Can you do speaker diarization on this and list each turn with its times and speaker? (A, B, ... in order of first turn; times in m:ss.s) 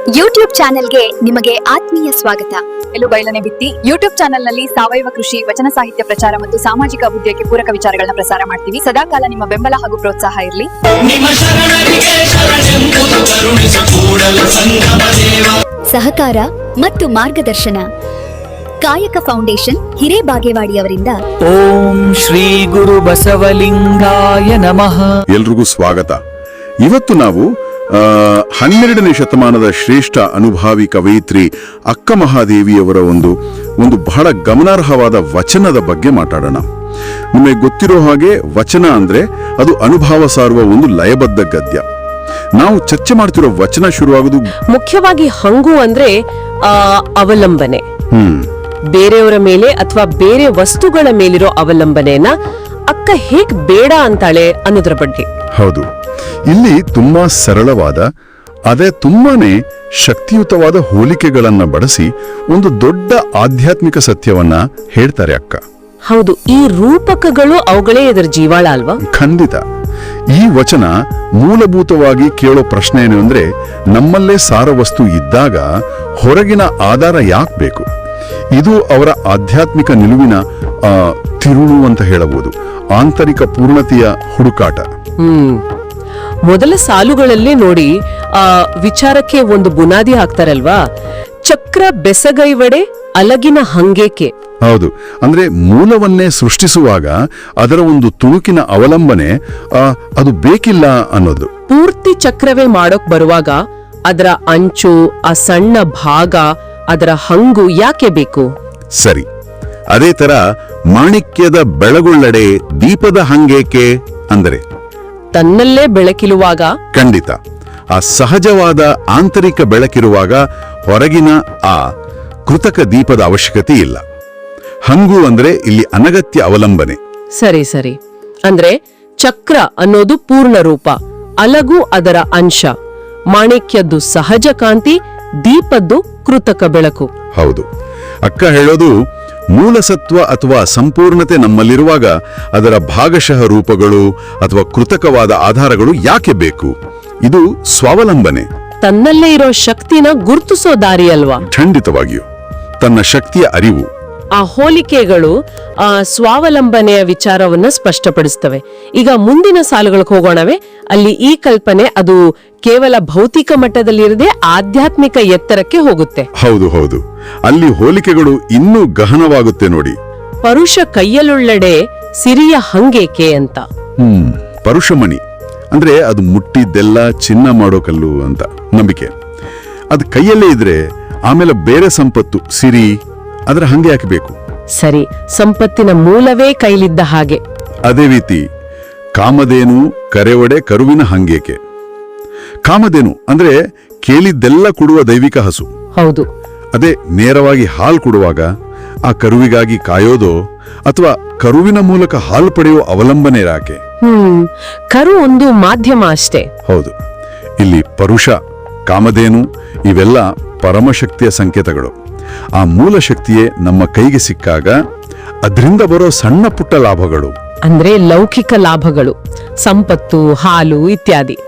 0:00.2-0:02.6 A
0:03.0-0:11.5 B
0:15.9-0:17.9 A
0:18.8-0:21.2 A
0:21.4-0:25.0 C
0:25.3-0:26.2 D
0:26.8-0:36.6 D
0:37.3-0:41.8 D
0:42.6-0:44.5 D
0:44.7-0:46.1 E
0:46.6-0:47.8 E
0:48.1-0:48.5 D
0:48.9-0:52.3 E
0:52.9-0:55.3 E
0:55.6-0:55.9 D
0:56.5-0:58.1 D
0:58.7-1:05.6 D
1:06.1-1:09.0 E
1:09.1-1:09.6 D
1:10.3-1:15.6 D
1:16.2-1:17.8 D
1:18.5-1:24.9 D
1:25.2-1:25.6 E
1:26.5-1:30.8 E
1:31.5-1:34.3 E
1:34.7-1:41.5 D
1:41.7-1:43.6 E
1:44.1-1:48.5 E
1:49.0-1:49.2 D
1:49.9-1:54.6 D
1:55.3-1:56.7 E
1:56.9-1:57.4 D
1:57.9-2:01.8 D
2:02.5-2:04.0 D
2:04.9-2:07.0 D
2:07.4-2:12.7 E
2:13.3-2:17.1 E
2:17.4-2:17.7 D
2:18.2-2:18.9 D
2:19.5-2:28.5 D
2:28.8-2:31.4 E
2:31.5-2:32.2 D
2:32.8-2:33.9 D
2:34.4-2:35.3 E
2:35.9-2:46.3 E
2:46.4-2:50.0 D
2:50.4-2:53.6 E
2:54.0-2:55.2 D
2:55.7-2:59.1 D
2:59.9-3:02.9 D
3:03.5-3:04.4 D
3:04.8-3:07.4 E
3:07.9-3:08.4 D
3:09.2-3:11.6 D
3:12.7-3:15.7 D
3:16.0-3:16.3 E
3:16.7-3:18.5 D
3:19.1-3:23.8 D
3:24.0-3:26.5 E
3:26.7-3:26.9 D
3:27.6-3:28.3 D
3:28.9-3:31.9 D
3:32.6-3:34.7 D
3:35.4-3:37.3 D
3:37.7-3:41.4 E